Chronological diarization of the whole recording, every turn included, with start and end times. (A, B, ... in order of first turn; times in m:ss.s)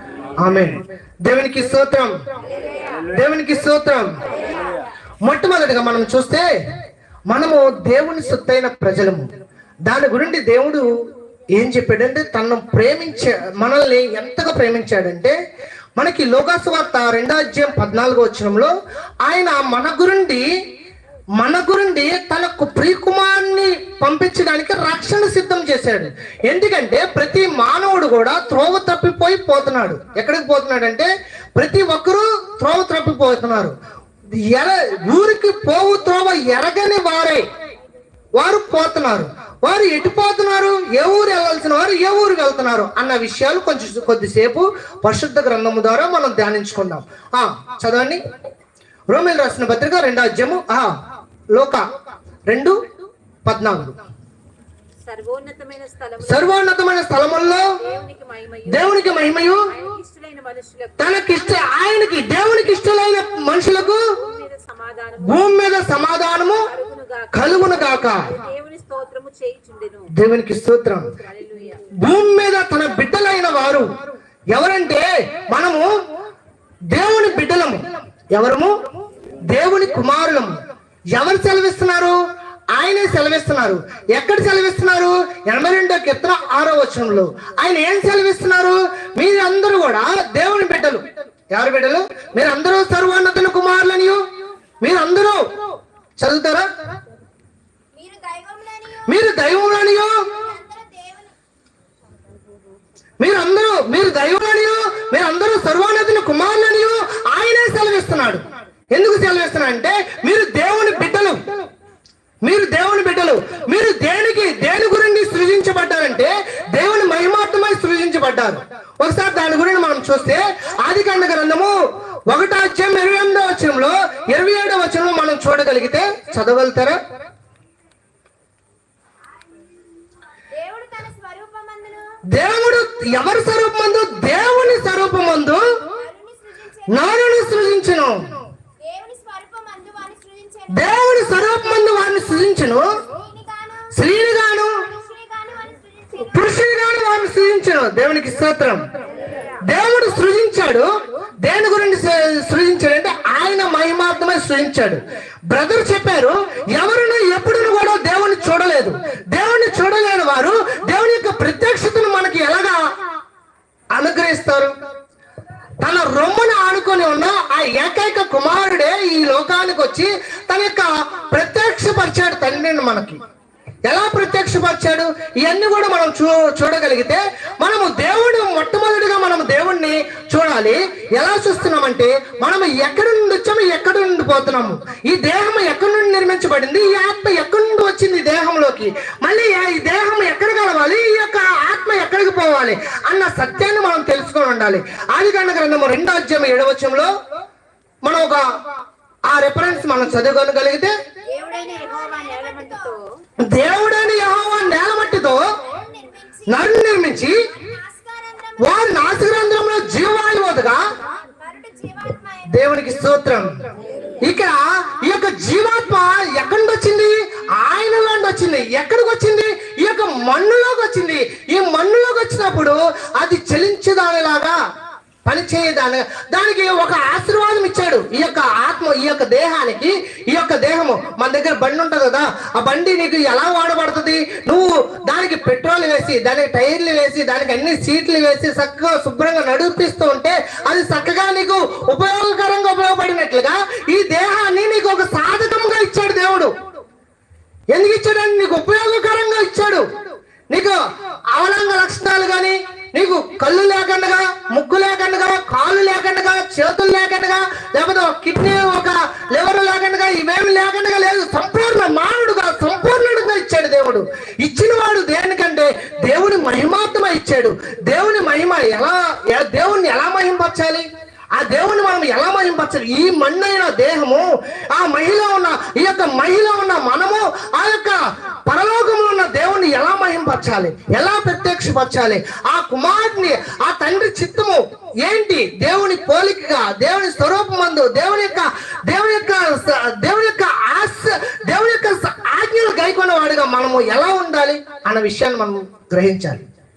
0:00.4-0:02.1 A
0:03.1-0:04.1 A
0:05.2-0:06.4 A
0:07.3-0:09.3 A
0:09.9-0:10.9 A
0:11.6-0:15.4 A
0:16.0-0:20.4 A
0:21.4-0:33.7 A
0:34.4-0:37.4 A
0:38.4-0:48.2 A
0:49.1-0:51.0 A
0:51.5-0:51.8 A
0:52.5-0:52.8 A
0:53.4-0:54.0 A
0:55.0-0:56.5 B
0:56.2-0:57.7 A
0:57.8-1:01.6 B
0:58.7-0:59.7 A
1:01.0-1:04.1 A
1:04.1-1:05.4 B
1:05.2-1:06.7 A
1:06.5-1:10.1 B
1:07.3-1:08.3 A
1:10.1-1:11.1 A
1:11.1-1:11.8 B
1:12.0-1:13.9 A
1:14.5-1:15.9 A
1:16.9-1:18.8 A
1:19.4-1:20.6 A
1:21.1-1:22.2 A
1:22.7-1:34.2 A
1:34.8-1:35.4 A
1:36.2-1:36.7 A
1:37.9-1:39.5 C
1:39.0-1:40.3 A
1:40.1-1:41.3 C
1:43.2-1:51.4 A
1:52.4-2:01.8 A
2:02.3-2:07.0 A
2:10.5-2:12.2 C
2:12.3-2:15.7 A
2:15.9-2:17.8 C
2:16.9-2:18.2 A
2:18.8-2:22.3 C
2:20.7-2:22.9 A
2:23.0-2:23.9 C
2:23.9-2:24.8 A
2:24.8-2:26.4 C
2:26.2-2:28.8 A
2:29.6-2:30.9 A
2:31.4-2:42.8 A
2:43.9-2:44.7 A
2:45.8-2:53.2 A
2:53.8-3:17.1 A
3:18.0-3:18.4 A
3:19.3-3:20.9 A
3:21.3-3:23.0 C
3:21.4-3:23.0 B
3:23.4-3:25.5 A
3:25.3-3:29.0 C
3:26.5-3:27.4 A
3:28.6-3:30.8 A
3:31.1-3:32.8 C
3:32.5-3:33.5 A
3:34.2-3:44.5 A
3:45.2-4:06.5 A
4:07.7-4:09.9 A
4:10.5-4:30.8 A
4:31.4-4:56.4 A